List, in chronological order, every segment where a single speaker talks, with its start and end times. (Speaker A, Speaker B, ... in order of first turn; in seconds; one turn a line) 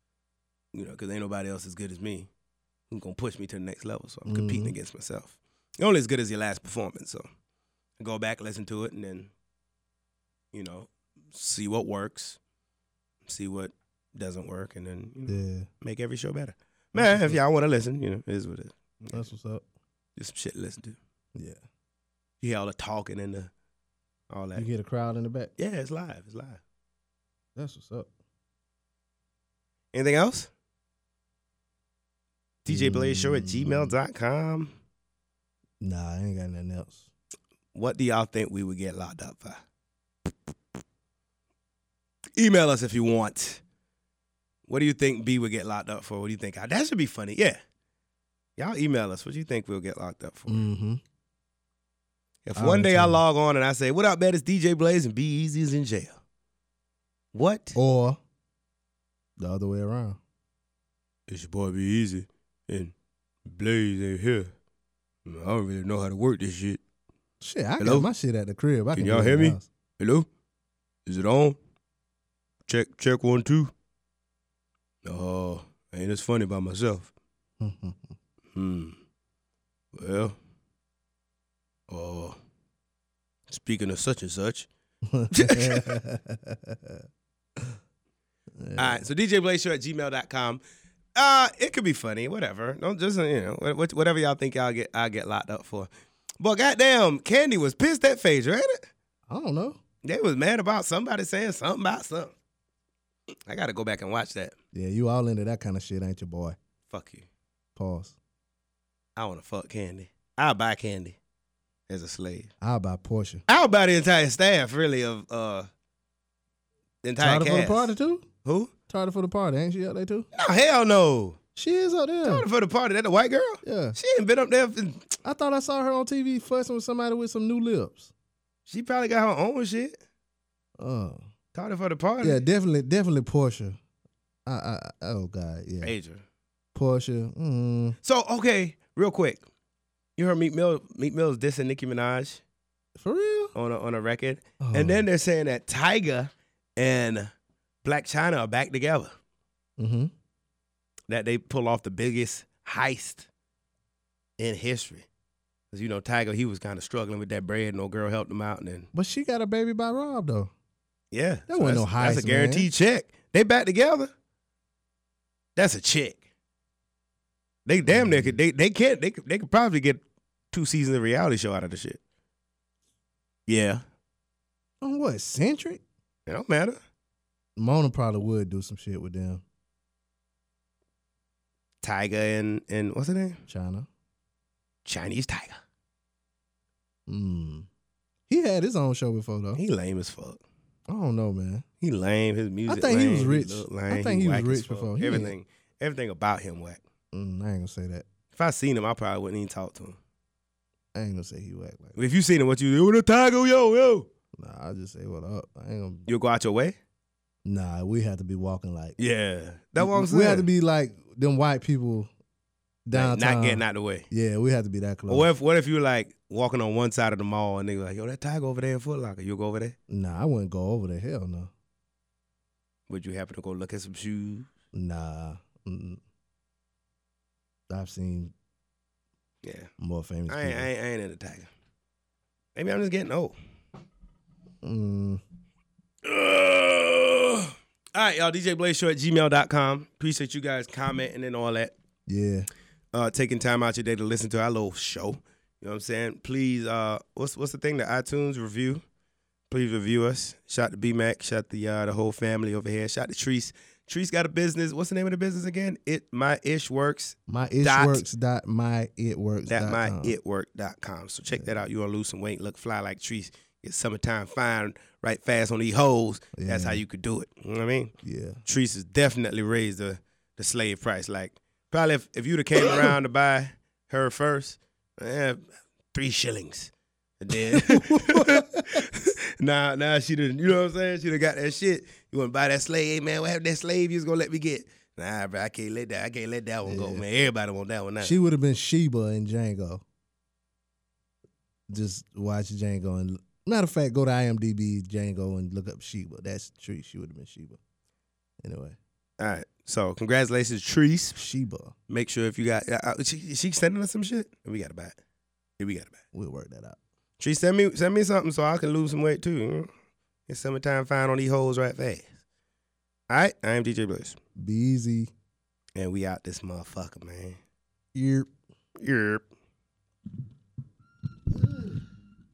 Speaker A: 0.7-2.3
Speaker A: 2.9-7.3
Speaker B: 4.2-4.7
Speaker A: 8.0-9.3
Speaker A: 10.5-12.4
Speaker A: 13.2-19.3
Speaker B: 15.3-15.7
Speaker B: 16.9-17.4
Speaker B: 19.1-19.6
Speaker A: 20.2-21.0
Speaker A: 22.4-23.5
Speaker A: 24.3-24.6
Speaker B: 24.5-25.5
Speaker A: 25.6-26.6
Speaker B: 27.6-28.1
Speaker A: 29.9-30.5
Speaker A: 32.6-34.7
Speaker B: 32.7-33.9
Speaker B: 35.8-37.1
Speaker A: 37.7-39.6
Speaker A: 42.4-43.6
Speaker A: 44.7-47.6
Speaker A: 48.6-50.7
Speaker B: 50.5-51.0
Speaker A: 52.4-56.2
Speaker B: 52.5-53.2
Speaker A: 57.3-57.8
Speaker B: 57.7-58.2
Speaker B: 59.4-60.2
Speaker A: 61.3-62.9
Speaker A: 63.4-64.5
Speaker A: 65.2-66.8
Speaker B: 67.4-69.7
Speaker A: 67.8-68.1
Speaker A: 69.0-70.3
Speaker A: 71.0-71.6
Speaker A: 72.7-73.7
Speaker A: 75.0-77.1
Speaker B: 77.6-78.0
Speaker A: 78.5-79.0
Speaker A: 79.9-80.3
Speaker A: 81.9-82.4
Speaker A: 83.5-84.7
Speaker B: 85.1-87.0
Speaker A: 85.3-85.9
Speaker B: 88.6-89.0
Speaker A: 88.8-90.6
Speaker A: 91.1-98.9
Speaker B: 99.3-99.8
Speaker A: 100.0-102.3
Speaker A: 103.5-104.5
Speaker B: 104.7-106.5
Speaker A: 106.9-107.3
Speaker B: 107.8-108.2
Speaker A: 109.2-111.2
Speaker A: 111.9-112.5
Speaker B: 112.6-113.4
Speaker A: 113.5-115.7
Speaker A: 117.0-117.9
Speaker B: 117.2-118.2
Speaker A: 118.4-118.7
Speaker B: 118.9-120.3
Speaker A: 120.3-121.4
Speaker B: 121.5-122.4
Speaker A: 122.2-125.1
Speaker B: 123.6-124.0
Speaker B: 125.2-128.1
Speaker A: 128.7-130.0
Speaker B: 130.8-131.2
Speaker A: 131.5-132.4
Speaker B: 132.2-133.8
Speaker B: 134.4-135.9
Speaker A: 135.8-136.2
Speaker B: 136.7-137.9
Speaker A: 138.0-139.4
Speaker A: 140.2-142.4
Speaker B: 143.0-143.5
Speaker A: 143.5-147.3
Speaker B: 144.6-145.1
Speaker A: 147.8-149.1
Speaker B: 149.8-150.1
Speaker A: 151.1-153.3
Speaker A: 154.4-155.1
Speaker A: 155.7-158.9
Speaker B: 158.9-160.5
Speaker A: 161.1-164.1
Speaker B: 161.5-162.7
Speaker A: 165.6-166.2
Speaker A: 167.7-172.0
Speaker B: 167.8-168.4
Speaker A: 173.5-173.8
Speaker B: 174.8-175.8
Speaker A: 176.3-176.8
Speaker B: 177.6-179.4
Speaker A: 181.8-183.4
Speaker B: 183.5-183.9
Speaker A: 184.8-185.6
Speaker B: 187.1-187.7
Speaker B: 188.3-189.6
Speaker A: 189.6-190.4
Speaker B: 190.9-191.6
Speaker A: 191.8-196.8
Speaker B: 192.7-195.3
Speaker B: 197.1-198.1
Speaker A: 198.3-200.0
Speaker B: 200.9-202.0
Speaker A: 201.9-204.1
Speaker B: 204.4-206.1
Speaker A: 206.1-206.8
Speaker B: 207.4-208.9
Speaker A: 209.0-210.4
Speaker B: 209.8-212.1
Speaker B: 212.9-215.3
Speaker A: 212.9-214.1
Speaker A: 215.1-219.8
Speaker B: 219.9-221.5
Speaker A: 222.9-224.5
Speaker B: 224.7-226.0
Speaker B: 227.7-228.3
Speaker A: 229.4-229.7
Speaker B: 229.8-230.7
Speaker A: 230.3-231.5
Speaker A: 232.5-233.3
Speaker B: 234.6-235.2
Speaker A: 236.0-241.7
Speaker B: 242.1-242.5
Speaker A: 242.9-248.8
Speaker A: 249.5-258.0
Speaker B: 257.3-260.1
Speaker A: 259.5-267.9
Speaker B: 261.3-261.6
Speaker B: 266.4-266.8
Speaker B: 268.0-268.4
Speaker A: 268.4-288.1
Speaker B: 272.6-272.9
Speaker B: 277.3-278.9
Speaker B: 286.6-287.0
Speaker B: 288.0-289.8
Speaker B: 291.7-297.6
Speaker B: 298.4-298.8
Speaker A: 299.2-301.2
Speaker B: 301.1-301.7
Speaker A: 301.9-305.0
Speaker A: 305.6-306.0
Speaker B: 306.1-306.8
Speaker A: 307.2-309.7
Speaker A: 310.3-312.1
Speaker A: 313.1-314.2
Speaker B: 314.4-315.1
Speaker A: 315.8-317.4
Speaker B: 317.9-318.3
Speaker A: 318.8-319.2